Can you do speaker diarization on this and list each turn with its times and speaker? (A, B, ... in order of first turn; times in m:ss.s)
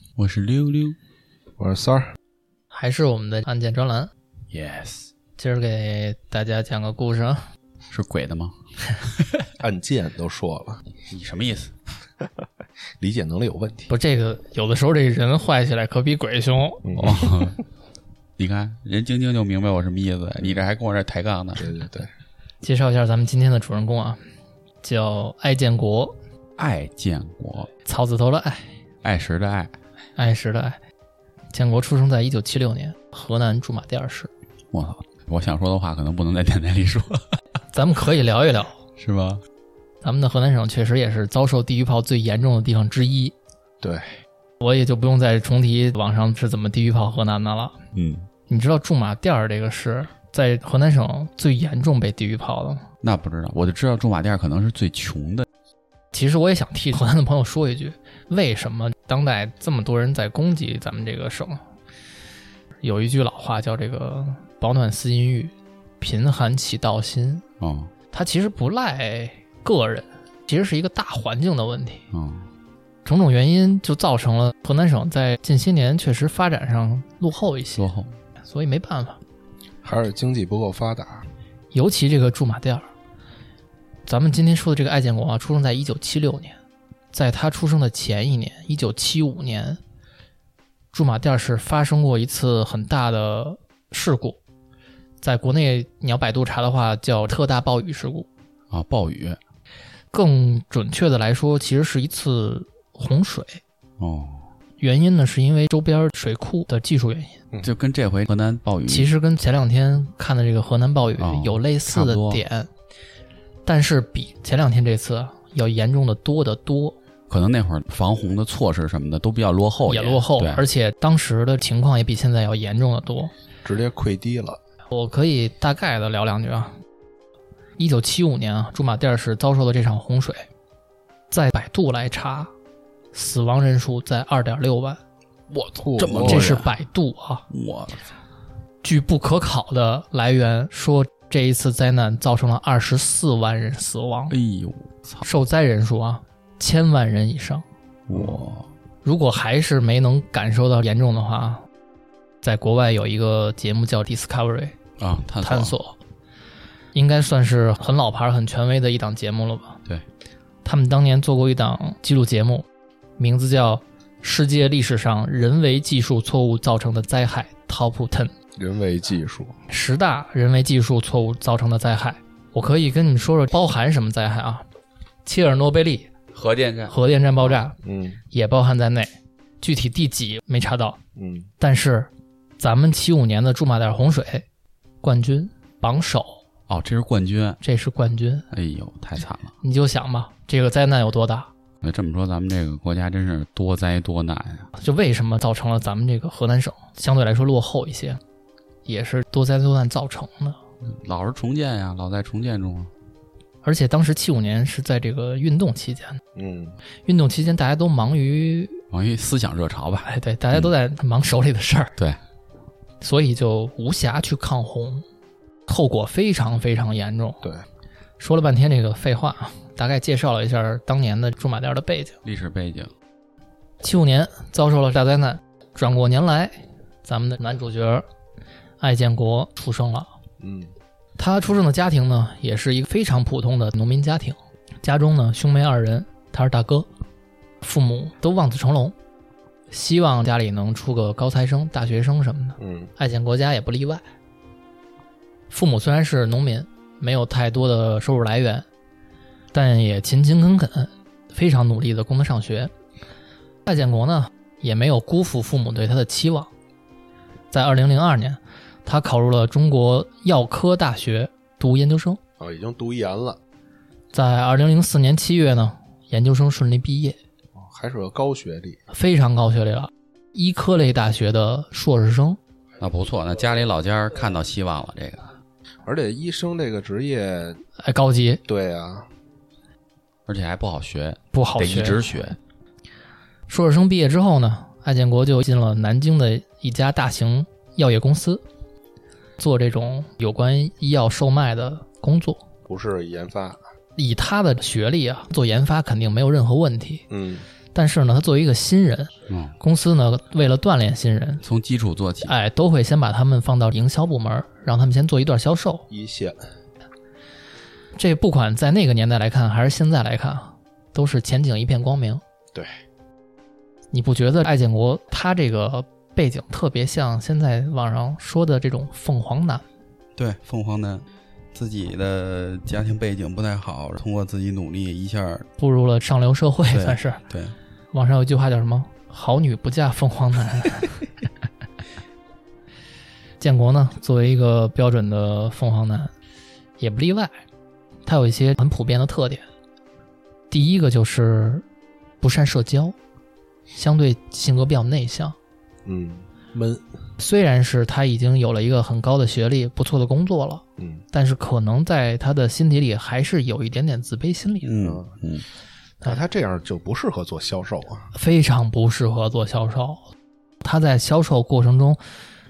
0:00.2-0:01.0 A
0:01.6-0:02.1 B
0:02.7-0:04.1 C
0:04.5-0:05.1 A
0:05.4-0:07.4 C
0:07.9-0:08.5 A
0:09.6-0:10.8 B
0:11.1-0:11.7 A
0:13.0-0:13.9 B
0:13.9-0:16.9 C
0:16.8-0:17.4 B
0:17.0-0:17.6 A
0:18.4-0:21.7 A
0:21.6-0:22.1 B
0:22.6-0:24.2 C
0:24.8-0:26.2 C
0:26.6-0:27.7 A
0:27.8-0:28.7 C
0:29.0-0:29.7 A
0:30.2-0:30.8 C
0:31.5-0:34.3 C
0:34.7-0:37.3 A
0:37.7-0:38.8 C
0:39.0-0:39.4 A
0:40.0-0:43.3 C
0:43.8-0:44.1 B
0:44.6-0:47.8 C
0:47.9-0:48.3 A
0:48.5-0:52.8 C
0:53.0-0:55.5 A
0:56.1-1:01.6 C
1:02.8-1:07.4 C
1:07.6-1:07.9 A
1:08.1-1:12.0 C
1:12.1-1:12.4 A
1:13.0-1:17.8 C
1:17.8-1:18.1 A
1:18.4-1:19.2 C
1:19.8-1:21.2 B
1:21.7-1:22.8 C
1:24.1-1:26.6 C
1:27.1-1:29.8 C
1:30.9-1:34.4 C
1:35.2-1:38.3 C
1:38.7-1:39.4 A
1:40.1-1:43.6 C
1:44.0-1:44.4 A
1:44.8-1:47.4 C
1:47.6-1:49.1 A
1:48.9-1:52.7 C
1:51.2-1:52.4 A
1:53.6-1:57.0 C
1:57.3-2:00.6 A
1:59.9-2:03.3 C
2:03.6-2:04.6 B
2:04.9-2:06.7 C
2:07.8-2:10.5 C
2:11.3-2:12.5 C
2:13.1-2:15.0 C
2:15.5-2:16.7 A
2:15.8-2:16.6 B
2:16.2-2:17.4 C
2:17.5-2:18.1 A
2:18.8-2:24.3 C
2:24.3-2:25.2 A
2:25.2-2:27.6 C
2:28.1-2:28.7 A
2:29.0-2:31.6 C
2:32.4-2:34.8 C
2:35.0-2:35.7 A
2:35.4-2:36.0 C
2:36.9-2:39.8 C
2:40.6-2:42.7 C
2:43.2-2:48.3 C
2:48.6-2:49.5 B
2:49.7-2:54.6 C
2:55.2-2:56.1 C
2:56.3-2:56.9 A
2:56.9-2:57.8 C
2:57.8-2:58.2 B
2:58.3-3:01.0 C
3:01.2-3:01.5 B
3:01.6-3:04.4 C
3:05.0-3:06.4 C
3:06.7-3:07.6 A
3:07.6-3:08.5 C
3:08.5-3:09.5 A
3:09.6-3:11.5 C
3:11.8-3:14.7 A
3:14.7-3:18.2 C
3:18.8-3:20.6 C
3:20.8-3:22.9 A
3:23.6-3:26.2 C
3:26.3-3:26.8 B
3:27.0-3:28.8 C
3:28.9-3:30.7 A
3:30.0-3:31.9 C
3:33.0-3:35.0 C
3:35.7-3:37.4 C
3:38.2-3:42.2 C
3:42.2-3:42.9 A
3:43.8-3:48.0 C
3:48.8-3:50.1 C
3:50.4-3:50.7 B
3:51.2-3:56.9 C
3:57.6-3:58.9 C
3:59.7-4:04.0 C
4:02.6-4:02.9 B
4:05.5-4:08.6 C
4:09.5-4:12.7 C
4:13.6-4:16.5 C
4:17.5-4:22.2 C
4:22.4-4:23.4 B
4:24.1-4:27.2 C
4:27.5-4:28.8 B
4:28.9-4:32.4 C
4:32.8-4:35.3 A
4:35.8-4:37.6 B
4:37.8-4:38.4 C
4:38.5-4:39.1 B
4:40.3-4:42.4 A
4:41.3-4:42.0 C
4:43.5-4:48.4 C
4:49.4-4:52.4 C
4:52.7-4:53.6 B
4:54.0-4:57.1 C
4:57.1-4:57.5 B
4:57.7-5:01.4 C
4:59.3-4:59.5 A
5:01.4-5:02.3 A
5:02.2-5:05.9 C
5:05.9-5:06.4 B
5:08.0-5:12.2 C
5:12.5-5:12.8 B
5:13.9-5:19.6 C
5:20.2-5:25.5 A
5:25.6-5:27.2 C
5:26.7-5:27.5 A
5:27.9-5:31.0 C
5:33.4-5:36.1 C
5:36.8-5:37.3 C
5:38.0-5:39.4 C
5:40.5-5:41.6 C
5:42.2-5:42.9 C
5:43.7-5:45.4 C
5:45.8-5:46.8 B
5:47.2-5:54.7 C
5:50.8-5:51.0 B
5:54.6-5:55.4 A
5:54.8-5:55.1 B
5:56.0-5:58.1 B
5:58.1-6:00.0 C
6:00.6-6:02.0 C